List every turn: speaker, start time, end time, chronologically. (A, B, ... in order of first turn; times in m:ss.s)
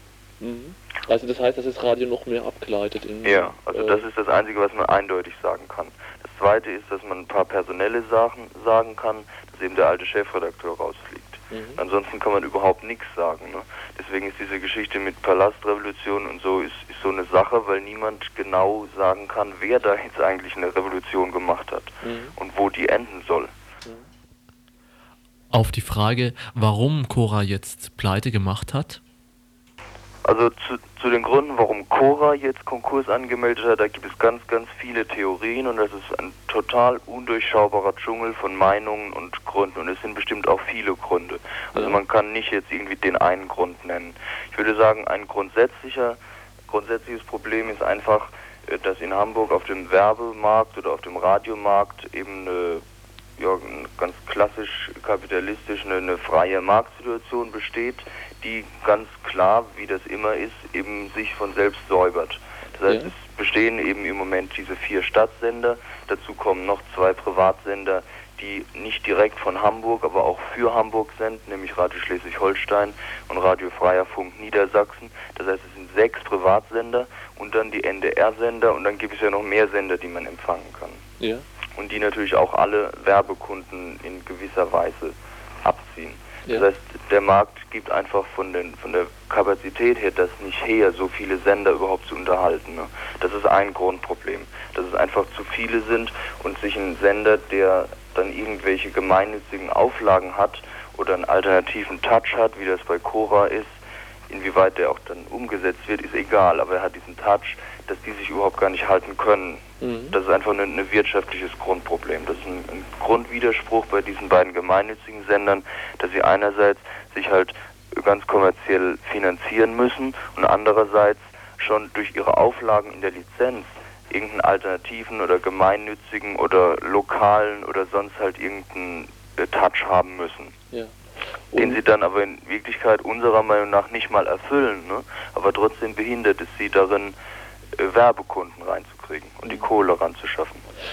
0:00.4-0:04.0 A
0:03.2-0:23.5 B
0:11.5-0:11.8 A
0:22.0-0:22.3 A
0:25.5-0:29.0 C
0:30.2-0:52.8 B
0:53.4-1:21.0 B
1:02.9-1:03.1 A
1:21.2-1:21.4 A
1:21.8-1:43.7 B
1:44.3-2:10.5 B
1:49.8-1:50.2 A
2:11.5-2:11.8 A
2:11.5-2:17.2 B
2:17.8-2:20.6 B